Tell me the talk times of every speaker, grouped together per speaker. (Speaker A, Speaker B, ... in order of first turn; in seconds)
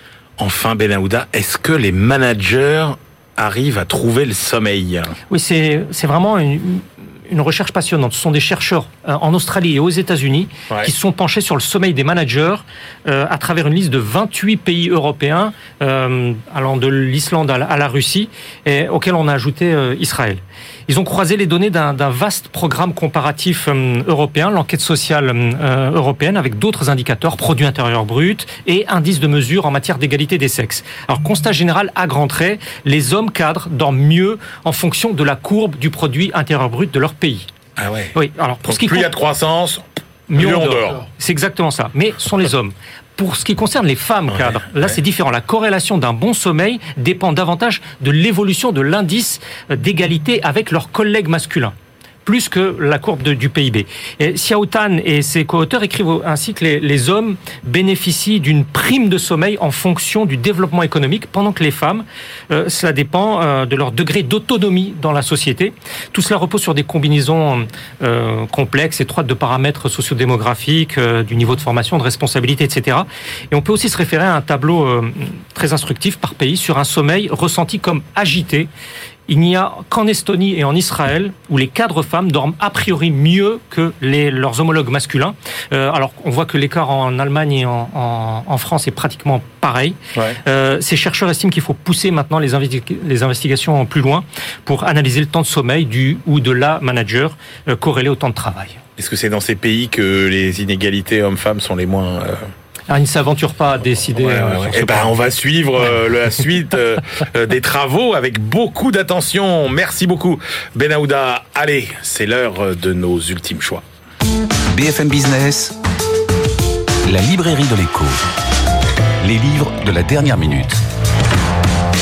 Speaker A: 0.4-5.1, 37.8-38.1, 38.6-41.0, 44.4-44.9, 99.0-102.4, 104.1-113.8
Speaker B: 5.3-37.5, 38.1-39.1, 40.3-51.7, 52.2-78.7, 79.3-98.8, 102.9-105.1
Speaker C: 114.7-115.8, 117.1-118.2, 119.2-120.8